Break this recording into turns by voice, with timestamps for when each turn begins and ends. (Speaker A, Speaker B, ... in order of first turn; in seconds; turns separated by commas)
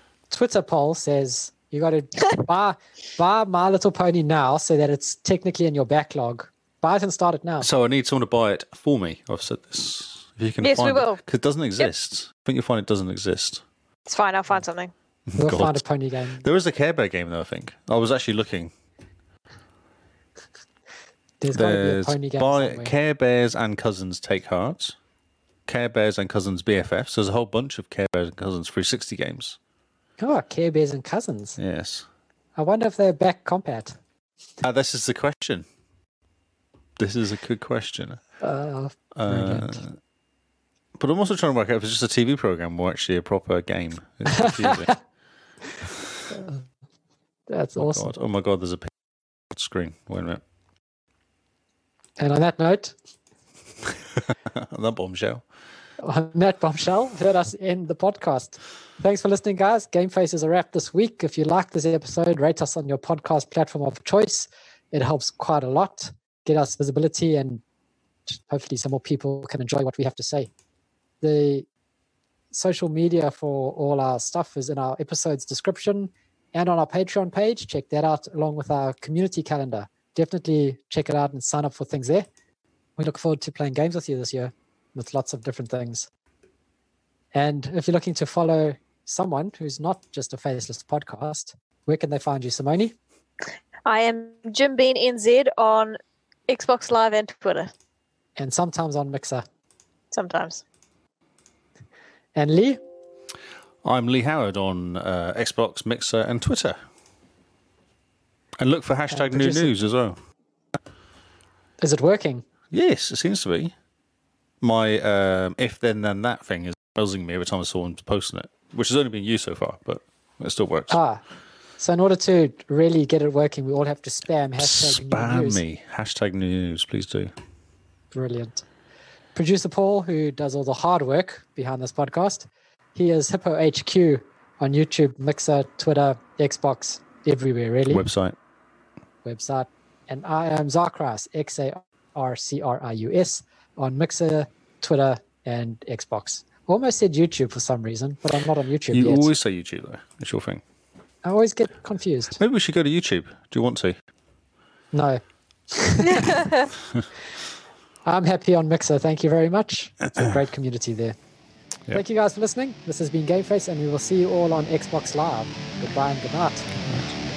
Speaker A: 0.3-7.7, Speaker B: 7.6-13.6, Speaker C: 10.6-11.2, Speaker C: 14.1-14.9, Speaker B: 15.3-15.8, Speaker A: 15.4-16.4, Speaker B: 16.4-18.7, Speaker A: 21.4-22.9, Speaker B: 21.5-24.9, Speaker B: 25.7-29.6, Speaker A: 30.2-31.6, Speaker B: 31.6-32.0, Speaker A: 32.5-34.0, Speaker B: 34.6-35.6, Speaker B: 37.0-38.2, Speaker A: 38.4-39.8, Speaker B: 39.1-39.9, Speaker B: 41.0-44.9, Speaker A: 44.3-45.0, Speaker A: 47.5-48.1, Speaker B: 47.8-48.9, Speaker B: 49.5-50.4, Speaker A: 52.2-53.0, Speaker B: 54.2-55.4, Speaker A: 56.0-67.6, Speaker A: 68.3-70.5, Speaker A: 71.2-71.7, Speaker A: 72.5-82.3, Speaker A: 83.0-86.1, Speaker A: 87.3-92.9, Speaker C: 93.8-97.7, Speaker A: 98.4-99.4, Speaker C: 100.1-100.6, Speaker A: 102.3-102.8, Speaker B: 103.8-106.8, Speaker B: 108.6-110.2, Speaker A: 109.1-109.7, Speaker A: 111.8-112.4, Speaker B: 112.7-113.7, Speaker B: 114.6-121.0, Speaker A: 120.9-121.2, Speaker A: 121.8-125.6, Speaker B: 124.6-127.3, Speaker A: 128.1-128.6, Speaker A: 129.3-138.0, Speaker B: 137.9-138.3, Speaker A: 139.2-149.3, Speaker B: 148.9-150.6, Speaker A: 151.2-152.4, Speaker B: 152.4-154.0, Speaker A: 154.9-156.4, Speaker C: 156.1-156.7, Speaker A: 158.0-161.1, Speaker A: 161.9-166.7, Speaker B: 166.8-167.1